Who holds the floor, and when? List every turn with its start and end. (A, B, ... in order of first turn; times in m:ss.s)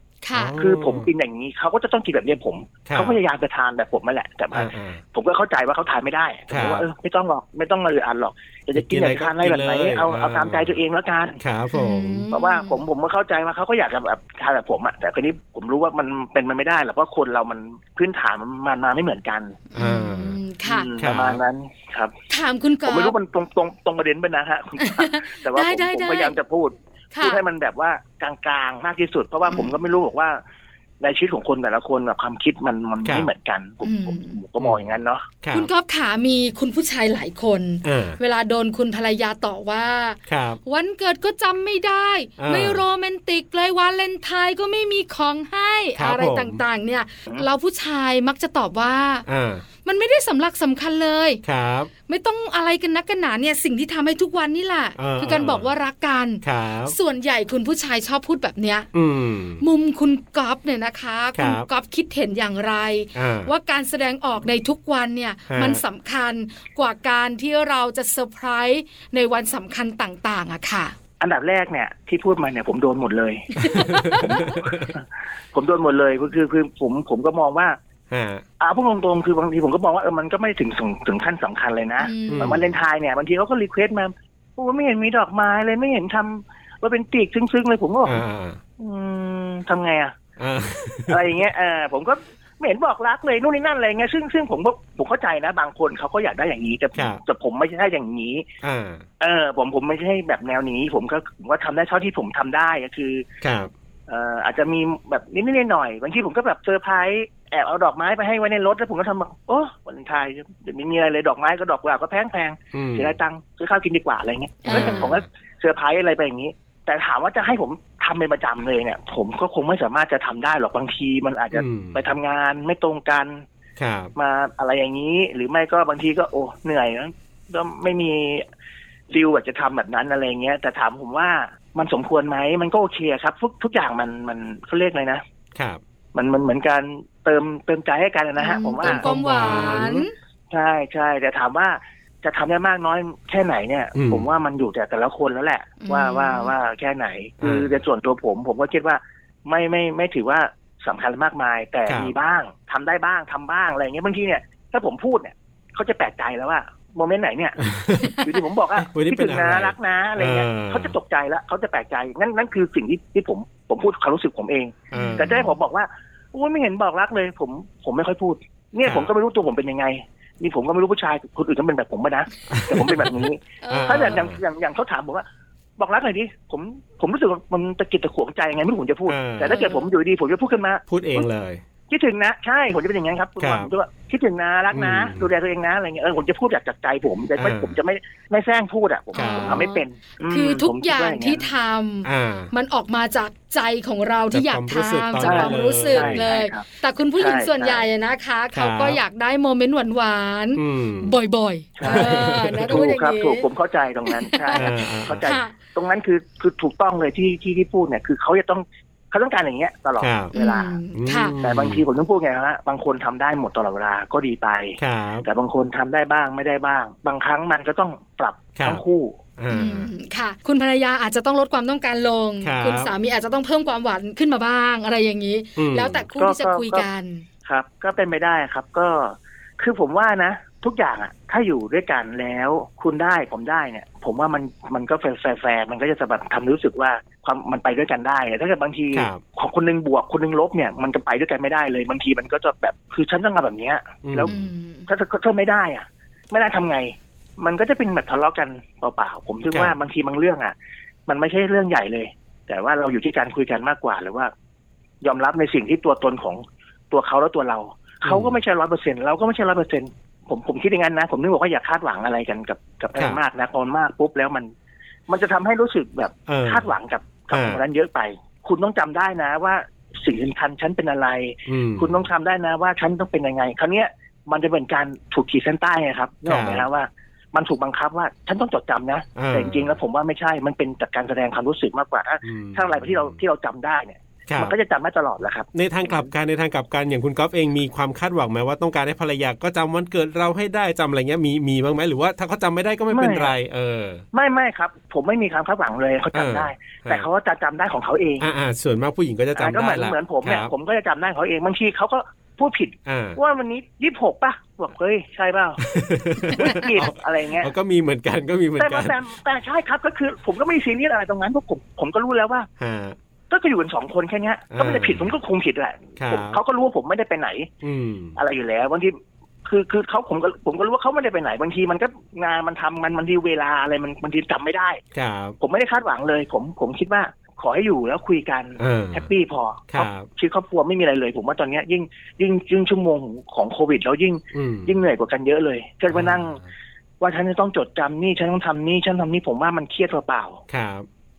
0:00.2-0:00.6 A
0:00.3-0:01.1 B
0:00.6-0:11.4 C
0:02.9-0:03.2 B
0:04.5-0:05.0 B
0:06.5-0:06.8 B
0:08.8-0:10.8 B
0:11.4-0:12.3 B
0:11.7-0:12.8 A
0:12.3-0:19.6 C
0:19.7-0:20.9 A
0:19.8-0:20.4 B
0:20.6-0:22.1 C
0:21.0-0:21.4 B
0:22.3-0:23.2 A
0:22.8-0:30.4 C
0:24.8-0:26.4 A
0:27.1-0:27.4 A
0:29.5-0:29.7 A
0:31.0-0:35.3 C
0:33.0-0:33.3 B
0:33.8-0:34.4 A
0:35.4-0:35.7 B
0:35.5-0:49.3 A
0:37.8-0:38.2 B
0:40.3-0:40.6 B
0:42.4-0:42.8 B
0:46.0-0:46.6 B
0:49.3-0:49.6 B
0:49.8-0:51.4 A
0:51.4-0:51.9 B
0:52.1-0:58.9 A
0:55.0-0:55.7 B
0:56.4-0:57.0 B
0:58.9-0:59.6 B
0:59.6-1:11.0 A
1:01.4-1:01.7 B
1:03.2-1:03.5 B
1:05.5-1:05.8 B
1:11.2-1:17.8 C
1:13.6-1:14.5 A
1:13.7-1:14.9 B
1:18.1-1:18.4 B
1:18.6-1:28.2 C
1:22.0-1:22.6 A
1:22.3-1:22.7 B
1:28.0-1:28.6 B
1:28.8-1:30.2 C
1:30.4-1:31.4 B
1:31.1-1:38.5 C
1:37.0-1:37.2 B
1:38.6-1:39.0 B
1:39.2-1:43.3 C
1:43.4-1:43.7 B
1:44.1-2:03.4 C
1:52.7-1:53.2 B
1:54.6-1:55.2 A
1:54.7-1:55.2 B
2:01.5-2:02.0 B
2:03.8-2:04.1 B
2:04.2-2:08.4 C
2:09.1-2:15.2 C
2:15.6-2:15.8 B
2:16.1-2:19.8 C
2:18.4-2:20.1 A
2:18.8-2:20.1 B
2:20.5-2:37.6 C
2:24.0-2:24.3 B
2:25.8-2:26.5 A
2:27.4-2:27.8 B
2:31.9-2:32.2 B
2:37.6-2:38.2 B
2:38.2-2:55.2 C
2:38.8-2:41.0 B
2:44.9-2:45.5 B
2:44.9-2:45.5 A
2:48.8-2:49.1 B
2:52.5-2:53.0 B
2:53.6-2:54.2 A
2:53.7-2:54.4 B
2:55.8-3:01.3 C
2:59.1-2:59.6 B
2:59.5-2:59.9 A
3:00.9-3:01.6 B
3:01.9-3:11.5 C
3:03.4-3:03.7 B
3:04.7-3:05.3 B
3:07.4-3:07.7 B
3:09.1-3:23.4 A
3:09.2-3:09.7 B
3:12.0-3:12.5 B
3:14.3-3:16.2 B
3:15.2-3:16.6 C
3:17.2-3:17.9 C
3:18.5-3:19.0 B
3:20.6-3:21.2 B
3:21.8-3:30.8 C
3:21.8-3:22.9 B
3:24.1-3:24.7 A
3:24.6-3:25.4 B
3:25.2-3:25.5 A
3:30.0-3:30.3 B
3:30.3-3:31.4 A
3:30.9-3:31.8 B
3:31.4-3:39.2 C
3:34.8-3:35.3 B
3:38.6-3:38.8 B
3:39.4-3:39.9 B
3:39.5-3:47.2 A
3:42.4-3:42.9 B
3:45.6-3:46.1 B
3:46.2-3:46.9 C
3:47.5-4:04.3 C
3:58.9-3:59.2 B
4:04.0-4:04.3 B
4:04.3-4:04.9 A
4:04.9-4:10.5 C
4:11.1-4:14.3 C
4:15.0-4:24.5 C
4:18.0-4:18.4 B
4:25.1-4:46.1 C
4:26.3-4:26.7 B
4:27.3-4:27.6 B
4:31.5-4:32.0 B
4:36.3-4:36.7 B
4:39.2-4:39.7 B
4:42.2-4:43.2 B
4:44.3-4:44.6 B
4:45.5-4:54.0 B
4:52.9-4:53.3 C
4:54.1-4:58.3 C
4:56.1-4:57.1 B
4:58.2-5:00.5 B
4:59.4-5:05.7 C
5:02.9-5:03.2 B
5:05.6-5:09.0 B
5:06.3-5:07.5 C
5:08.6-5:12.5 C
5:12.6-5:13.0 B
5:13.3-5:17.5 C
5:14.5-5:15.1 B
5:16.0-5:16.4 B
5:17.6-5:18.2 B
5:18.2-5:19.0 C
5:19.5-5:24.8 C
5:25.0-5:25.4 B
5:25.4-5:36.4 C
5:28.6-5:29.1 B
5:29.7-5:30.1 B
5:34.3-5:34.7 B
5:35.9-5:36.4 B
5:37.0-5:40.4 C
5:40.5-5:40.9 B